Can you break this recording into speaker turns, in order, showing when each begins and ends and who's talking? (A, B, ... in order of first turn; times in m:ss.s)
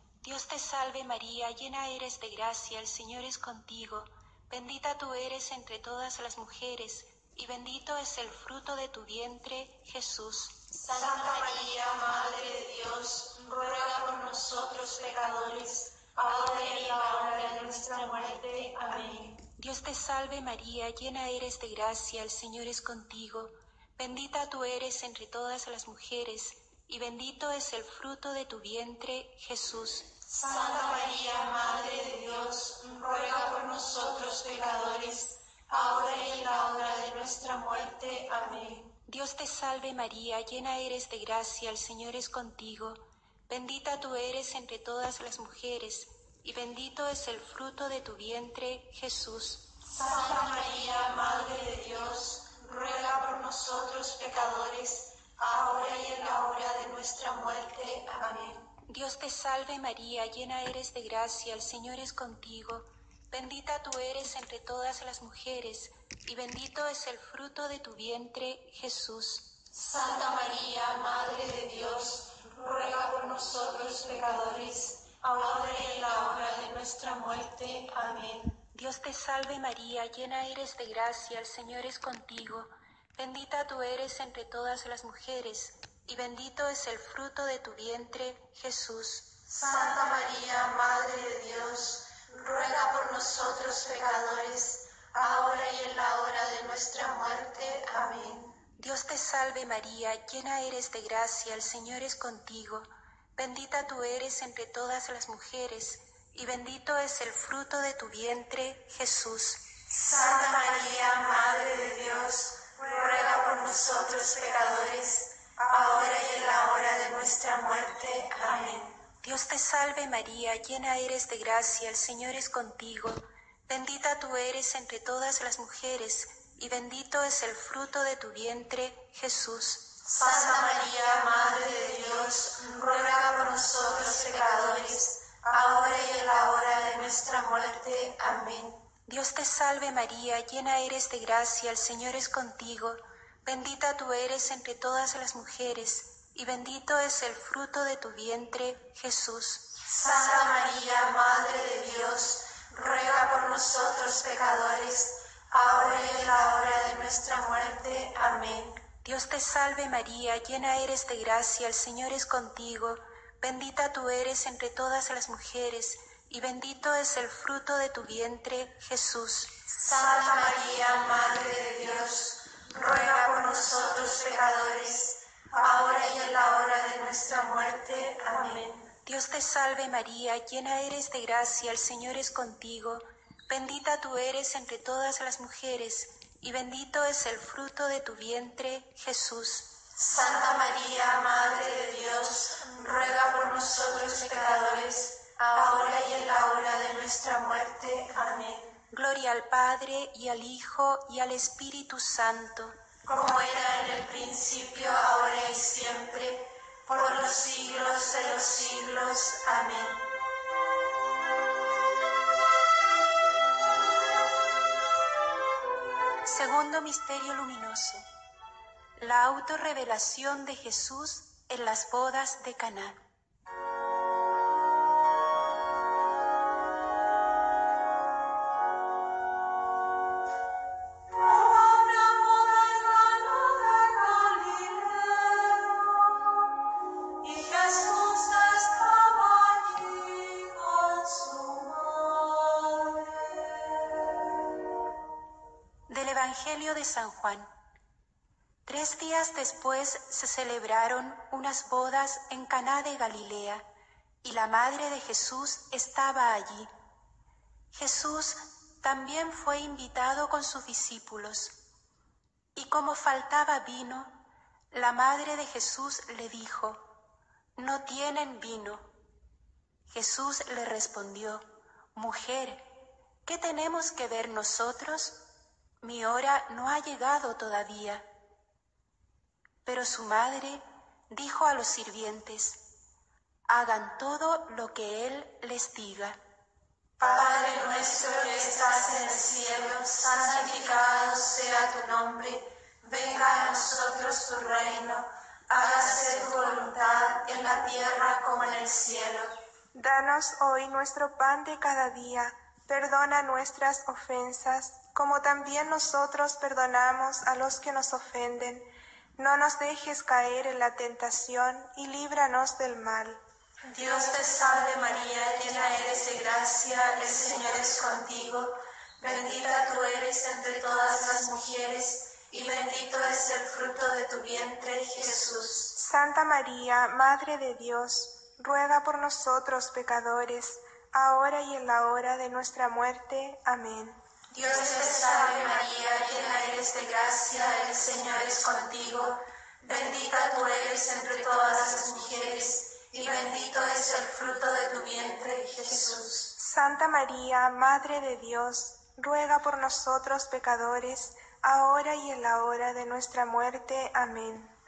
0:00.2-0:10.6 A
0:10.7-0:19.4 B
0:19.6-0:30.1 A
0:30.3-0:38.9 B
0:39.1-0:49.7 A
0:49.9-0:58.7 B
0:58.9-1:09.6 A
1:09.7-1:18.6 B
1:18.7-1:29.3 A
1:29.5-1:38.6 B
1:38.8-1:49.6 A
1:49.9-1:59.0 B
1:59.2-2:10.0 A
2:10.0-2:18.8 B
2:19.1-2:29.8 A
2:29.8-2:38.8 B
2:39.0-2:49.6 A
2:49.7-2:58.9 B
2:59.0-3:09.7 A
3:09.9-3:18.7 B
3:18.9-3:22.8 A
3:23.1-3:30.1 B
3:36.2-3:38.0 A
3:39.0-3:43.0 A
3:51.1-3:56.1 B
3:57.2-4:04.0 B
4:05.9-4:07.5 A
4:08.7-4:13.7 A
4:14.2-4:16.7 A
4:17.7-4:21.5 A
4:22.6-4:24.2 A
4:24.7-4:26.8 A
4:27.6-4:28.9 A
4:29.9-4:32.6 A
4:33.2-4:35.2 A
4:35.8-4:38.1 A
4:39.6-4:42.6 A
4:43.5-4:46.2 A
4:47.0-4:59.3 B
4:59.7-5:13.2 C
5:13.7-5:25.7 B
5:25.8-5:34.0 C
5:34.3-5:46.3 B
5:46.4-5:54.5 C